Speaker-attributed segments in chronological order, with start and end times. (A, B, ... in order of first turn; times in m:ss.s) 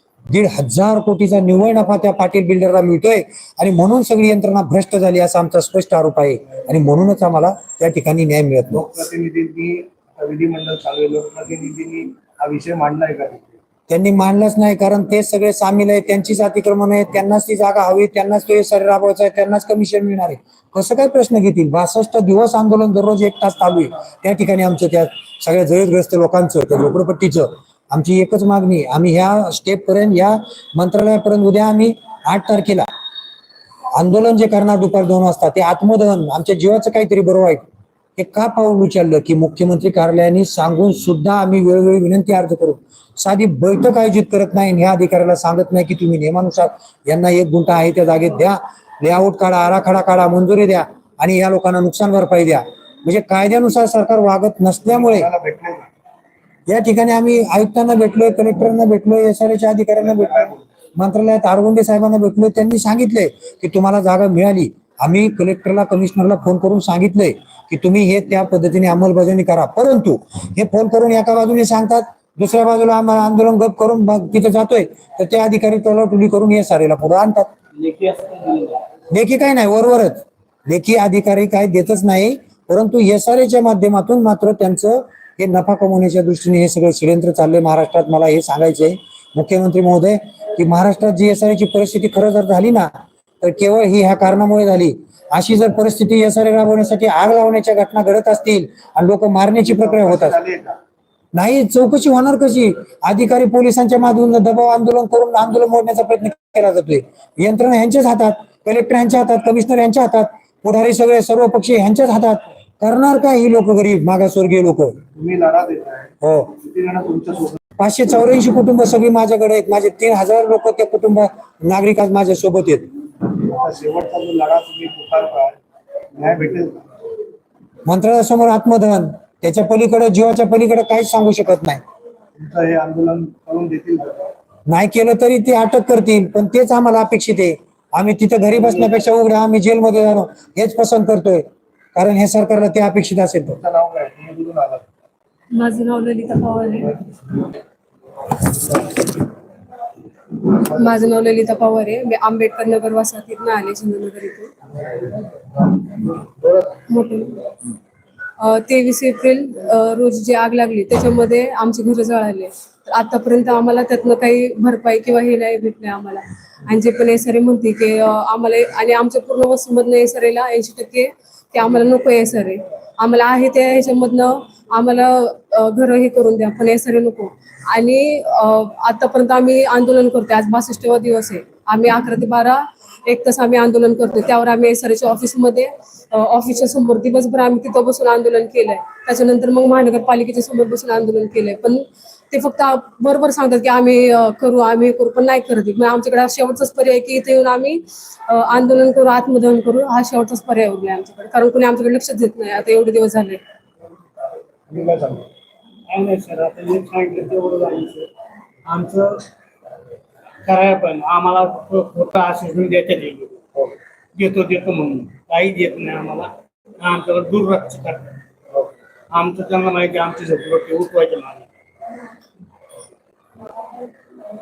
0:00.3-0:08.8 A
0:08.7-0:13.5 B
0:13.9-0:32.9 A
0:33.9-0:37.6 A
0:38.2-0:55.3 A
0:54.9-0:55.9 B
0:56.7-1:17.5 A
1:00.2-1:00.6 B
1:17.8-1:18.8 C
1:19.1-1:40.4 A
1:39.6-1:40.8 B
1:41.3-1:55.0 A
1:55.1-1:57.6 B
1:56.2-1:56.6 A
1:57.8-2:02.9 A
2:03.3-2:05.6 B
2:06.2-2:06.8 B
2:07.8-2:11.8 A
2:12.4-2:14.3 B
2:14.7-2:21.4 A
2:21.9-2:23.6 A
2:23.6-2:24.8 B
2:25.5-2:27.0 D
2:30.5-2:34.5 D
2:35.8-2:36.8 B
2:36.9-2:37.5 D
2:38.4-3:23.4 D
3:24.7-3:25.3 B
3:25.9-3:28.1 C
3:28.6-3:29.2 C
3:30.4-3:38.2 C
3:39.1-3:41.5 C